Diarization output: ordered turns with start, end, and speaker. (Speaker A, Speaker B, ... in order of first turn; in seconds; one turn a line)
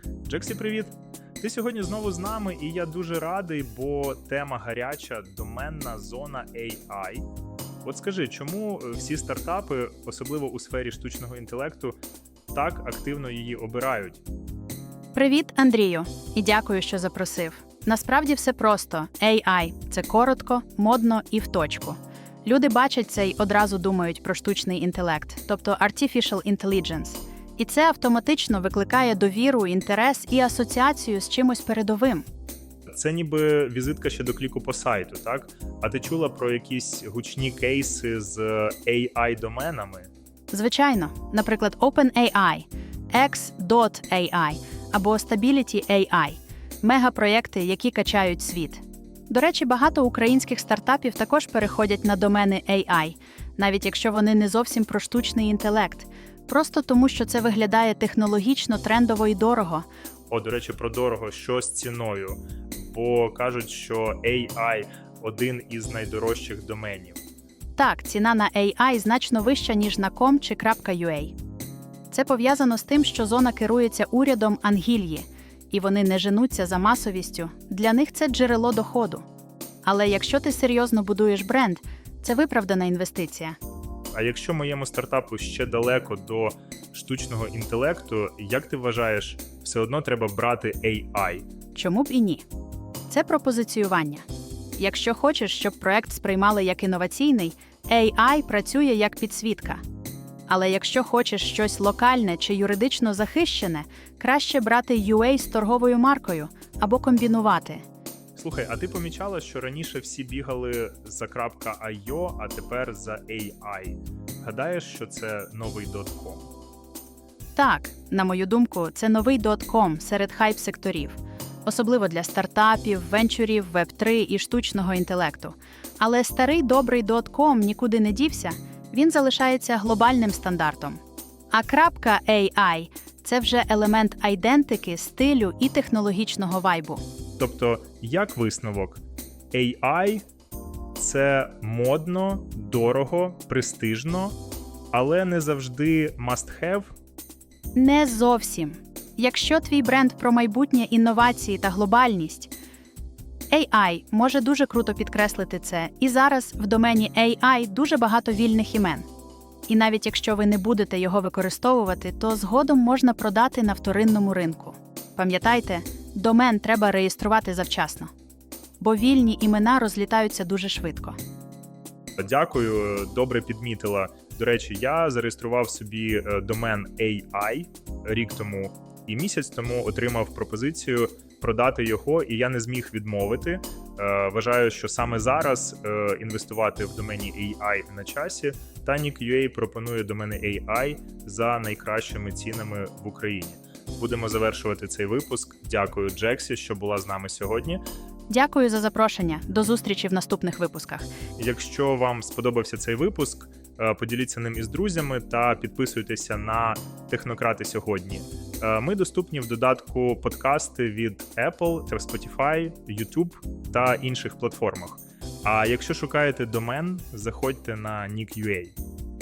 Speaker A: 0.3-7.2
Speaker A: 7.8-12.0
Speaker A: 12.5-14.2
Speaker B: 15.1-32.3
Speaker A: 32.9-40.1
Speaker B: 40.5-59.9
Speaker A: 60.3-67.2
Speaker B: 67.8-71.3
Speaker B: 72.1-79.2
Speaker B: 79.8-83.6
Speaker A: 84.1-91.5
Speaker B: 91.8-92.5
Speaker B: 93.1-94.3
Speaker B: 94.8-99.8
Speaker B: 100.5-107.8
Speaker A: 108.4-116.5
Speaker B: 117.6-131.0
Speaker B: 131.5-137.0
Speaker A: 137.4-139.0
Speaker A: 139.5-140.2
Speaker A: 141.0-144.4
Speaker A: 144.9-146.9
Speaker B: 147.8-152.5
Speaker B: 153.5-159.1
Speaker B: 159.7-168.1
Speaker B: 168.8-171.2
Speaker A: 172.2-197.8
Speaker B: 198.3-201.1
Speaker A: 201.4-218.8